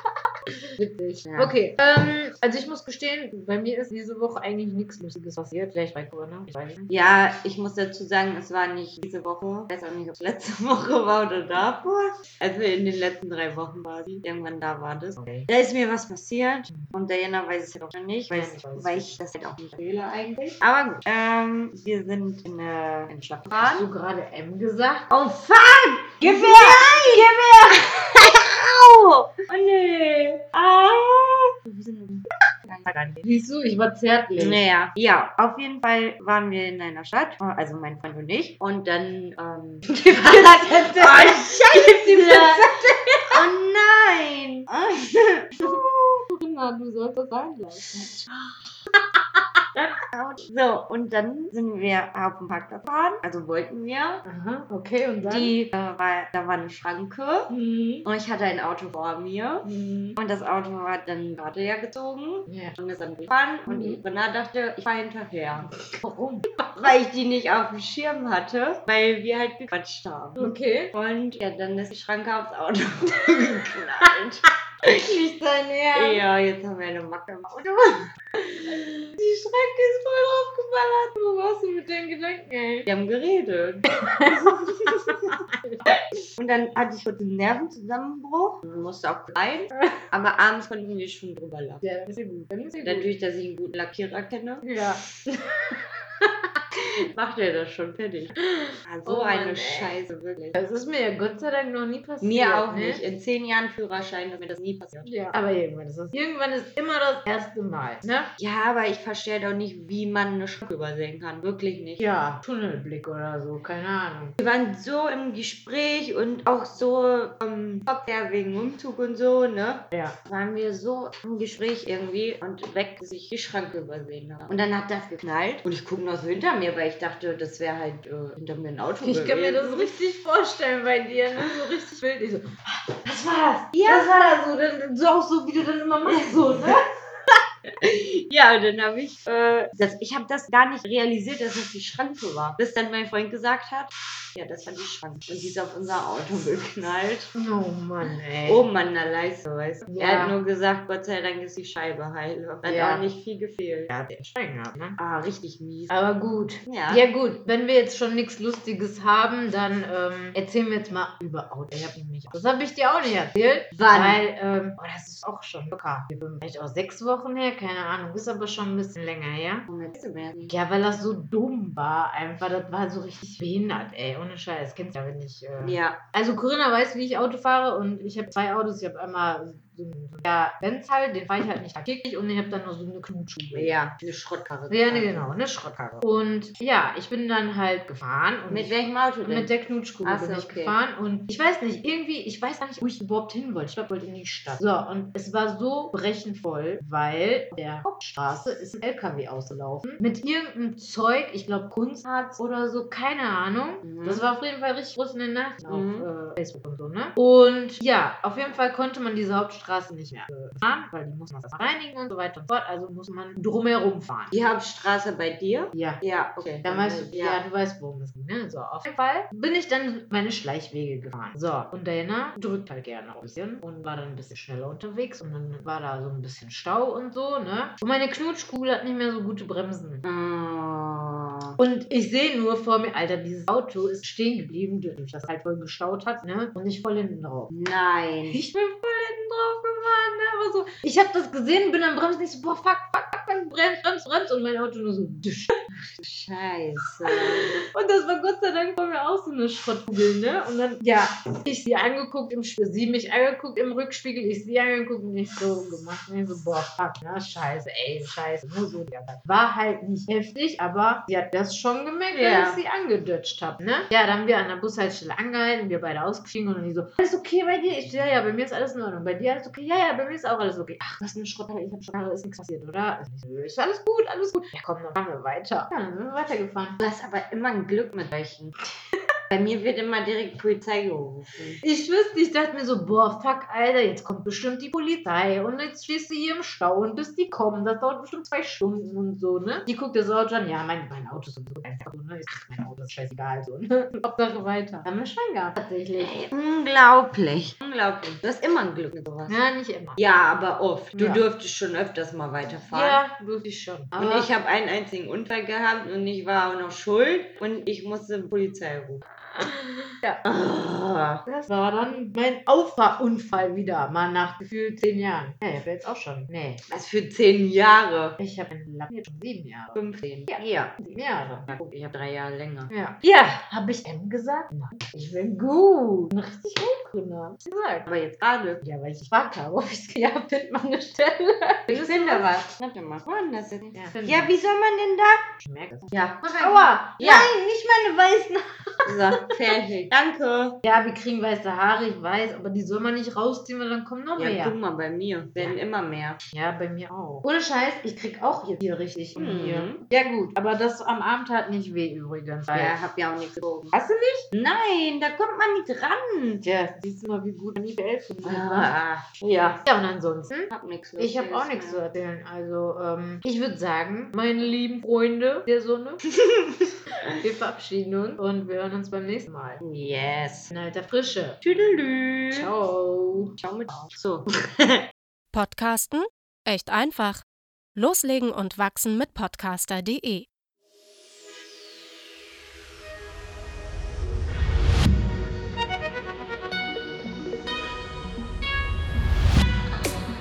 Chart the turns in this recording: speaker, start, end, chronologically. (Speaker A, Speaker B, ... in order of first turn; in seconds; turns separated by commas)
Speaker A: 0.8-6.9, Speaker B: 1.2-1.5, Speaker B: 6.9-23.9, Speaker A: 15.2-15.5, Speaker A: 18.3-19.1, Speaker A: 23.6-25.1, Speaker B: 25.1-33.2, Speaker A: 26.2-27.3, Speaker A: 33.2-34.6, Speaker B: 34.4-42.7, Speaker A: 39.9-43.5, Speaker B: 43.3-46.2, Speaker A: 45.6-48.1, Speaker A: 49.1-49.9, Speaker B: 50.1-54.2, Speaker A: 54.2-55.5, Speaker B: 55.2-57.5, Speaker A: 57.5-58.1, Speaker B: 58.0-65.7, Speaker A: 59.6-60.2, Speaker A: 62.5-62.8, Speaker A: 63.7-64.0, Speaker A: 65.8-66.9, Speaker B: 66.8-75.0, Speaker A: 70.4-70.9, Speaker A: 74.9-76.2, Speaker B: 75.9-78.0, Speaker A: 78.5-82.9, Speaker B: 82.9-85.4, Speaker A: 83.9-84.6, Speaker A: 85.1-85.8, Speaker B: 86.3-91.8, Speaker A: 89.7-90.0, Speaker A: 91.8-93.1, Speaker B: 92.8-94.9, Speaker A: 94.7-95.4, Speaker B: 96.8-100.6, Speaker A: 98.4-100.0, Speaker A: 100.5-103.0, Speaker B: 102.2-105.1, Speaker A: 105.0-108.3, Speaker B: 108.4-112.0, Speaker A: 112.0-114.4, Speaker B: 114.4-129.9, Speaker A: 129.0-136.8, Speaker B: 133.7-134.1, Speaker B: 136.1-136.7, Speaker B: 137.8-147.3, Speaker A: 147.3-148.7, Speaker B: 148.0-153.9, Speaker A: 149.9-150.4, Speaker A: 152.7-153.1, Speaker A: 153.9-155.0, Speaker B: 155.0-155.9, Speaker A: 155.9-169.7, Speaker B: 156.7-157.0, Speaker B: 163.7-164.2, Speaker B: 169.7-170.5, Speaker A: 170.5-183.8, Speaker B: 175.6-176.0, Speaker B: 183.5-185.3, Speaker A: 184.7-214.3, Speaker B: 188.5-190.8, Speaker B: 203.8-204.2, Speaker B: 205.7-206.1, Speaker B: 214.3-217.4, Speaker A: 215.7-216.0, Speaker A: 216.6-230.0, Speaker B: 230.0-231.6, Speaker A: 231.6-237.5, Speaker B: 237.5-238.4, Speaker A: 238.3-245.9, Speaker B: 246.0-247.6, Speaker A: 247.1-276.8, Speaker B: 262.1-262.6, Speaker B: 276.8-278.6, Speaker B: 279.3-281.6, Speaker A: 281.6-296.2, Speaker B: 296.0-299.4, Speaker A: 299.3-300.0, Speaker B: 300.0-303.0, Speaker A: 300.9-301.2, Speaker A: 302.7-304.3, Speaker B: 304.0-309.0, Speaker A: 309.4-310.2, Speaker B: 310.2-311.2, Speaker A: 311.2-316.6, Speaker B: 316.7-318.2, Speaker A: 318.2-319.8, Speaker B: 319.8-320.7, Speaker A: 320.3-321.5, Speaker B: 321.5-322.7, Speaker A: 322.7-327.9, Speaker B: 327.9-328.6, Speaker A: 328.6-332.3, Speaker B: 331.7-335.2, Speaker A: 333.7-334.3, Speaker A: 335.4-339.3, Speaker B: 335.9-337.3, Speaker B: 338.9-340.6, Speaker A: 340.6-344.5, Speaker B: 344.1-346.2, Speaker A: 346.3-352.8, Speaker B: 349.1-349.8, Speaker B: 352.5-353.7, Speaker A: 353.7-354.2, Speaker B: 354.3-356.4, Speaker A: 356.4-358.7, Speaker B: 358.2-359.6, Speaker A: 359.6-366.0, Speaker B: 360.5-361.8, Speaker B: 366.2-366.6, Speaker A: 367.2-369.6, Speaker B: 369.6-370.5, Speaker A: 370.5-371.4, Speaker B: 371.4-372.5, Speaker A: 372.3-373.9, Speaker B: 373.4-374.9, Speaker C: 375.3-377.2, Speaker C: 377.8-380.3